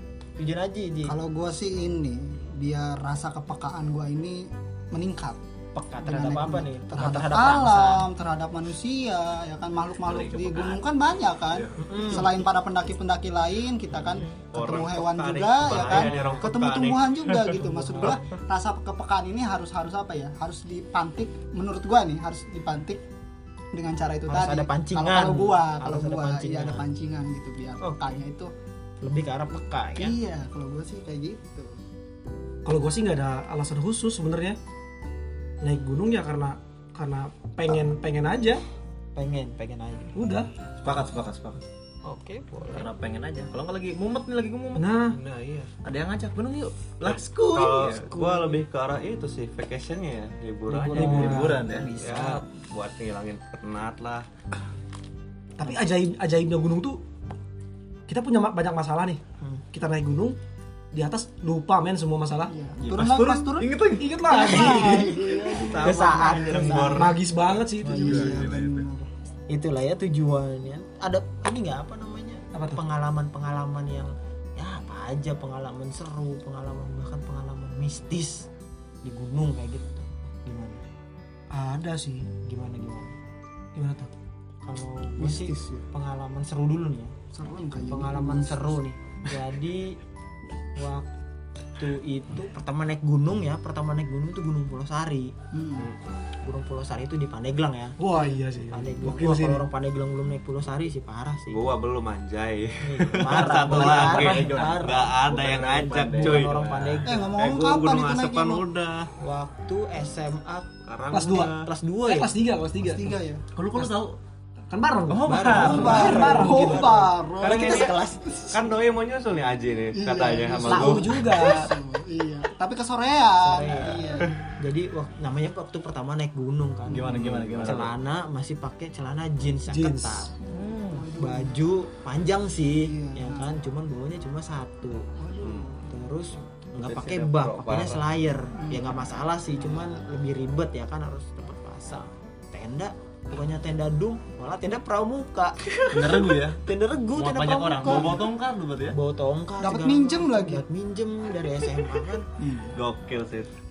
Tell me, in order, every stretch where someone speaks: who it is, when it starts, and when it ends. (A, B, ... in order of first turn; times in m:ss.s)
0:00.4-0:01.2 A
0:01.1-0:05.4 B
0:05.7-0:08.1 A
0:06.0-0:23.0 B
0:10.0-0:10.8 C
0:11.5-0:12.1 C
0:11.8-0:12.3 A
0:14.1-0:14.4 A
0:14.5-0:18.2 D
0:15.7-0:16.5 A
0:17.6-0:18.3 A
0:23.7-0:28.5 B
0:24.3-0:26.8 A
0:27.8-0:28.1 A
0:29.0-0:30.2 A
0:30.0-0:31.8 B
0:32.6-0:34.6 E
0:35.6-0:38.6 E
0:39.2-0:40.1 A
0:40.1-0:40.5 E
0:40.8-0:41.6 C
0:42.0-0:42.9 A
0:42.7-0:44.9 C
0:44.8-0:45.2 E
0:45.1-0:45.7 D
0:45.8-0:48.0 C
0:47.0-0:54.2 D
0:47.8-0:48.6 A
0:50.7-0:51.6 E
0:50.9-0:52.4 A
0:51.0-0:51.9 C
0:55.6-0:57.0 E
0:58.1-0:59.2 E
0:59.7-1:00.4 E
1:00.9-1:02.5 E
1:02.5-1:06.9 B
1:02.8-1:06.8 C
1:03.9-1:05.2 E
1:04.4-1:05.0 A
1:05.6-1:07.2 D
1:05.8-1:07.2 A
1:06.9-1:08.4 E
1:07.8-1:09.1 B
1:07.9-1:08.9 D
1:09.5-1:18.5 A
1:12.5-1:12.8 E
1:19.0-1:20.8 A
1:21.5-1:22.3 E
1:22.4-1:23.1 A
1:23.7-1:24.1 E
1:24.6-1:27.1 A
1:25.2-1:25.8 B
1:27.3-1:28.8 B
1:27.9-1:30.0 A
1:30.8-1:31.0 A
1:31.8-1:35.3 A
1:35.5-1:35.9 B
1:35.8-1:36.2 D
1:36.4-1:38.0 A
1:38.0-1:39.7 E
1:38.7-1:41.7 A
1:41.5-1:49.1 D
1:42.8-1:45.2 A
1:43.2-1:46.5 C
1:46.1-1:47.3 A
1:47.0-1:48.6 B
1:49.2-1:50.7 A
1:50.8-1:51.7 D
1:51.1-1:53.1 E
1:51.3-1:52.3 A
1:52.8-1:53.4 B
1:53.5-1:54.2 C
1:54.7-1:57.1 E
1:55.1-1:56.3 C
1:55.2-1:58.5 A
1:55.6-1:58.0 B
1:57.4-2:01.6 D
1:59.9-2:04.4 B
2:00.6-2:01.7 E
2:03.4-2:10.3 A
2:06.9-2:07.9 C
2:07.1-2:07.9 D
2:09.7-2:10.3 E
2:10.5-2:11.0 D
2:10.9-2:11.6 B
2:11.2-2:15.0 A
2:12.8-2:13.5 B
2:15.2-2:15.9 B
2:15.4-2:15.8 D
2:15.9-2:28.2 A
2:16.8-2:18.1 D
2:18.6-2:18.9 B
2:25.9-2:26.6 C
2:27.1-2:29.0 C
2:28.9-2:32.3 A
2:29.6-2:30.6 B
2:32.4-2:32.8 B
2:32.8-2:33.5 D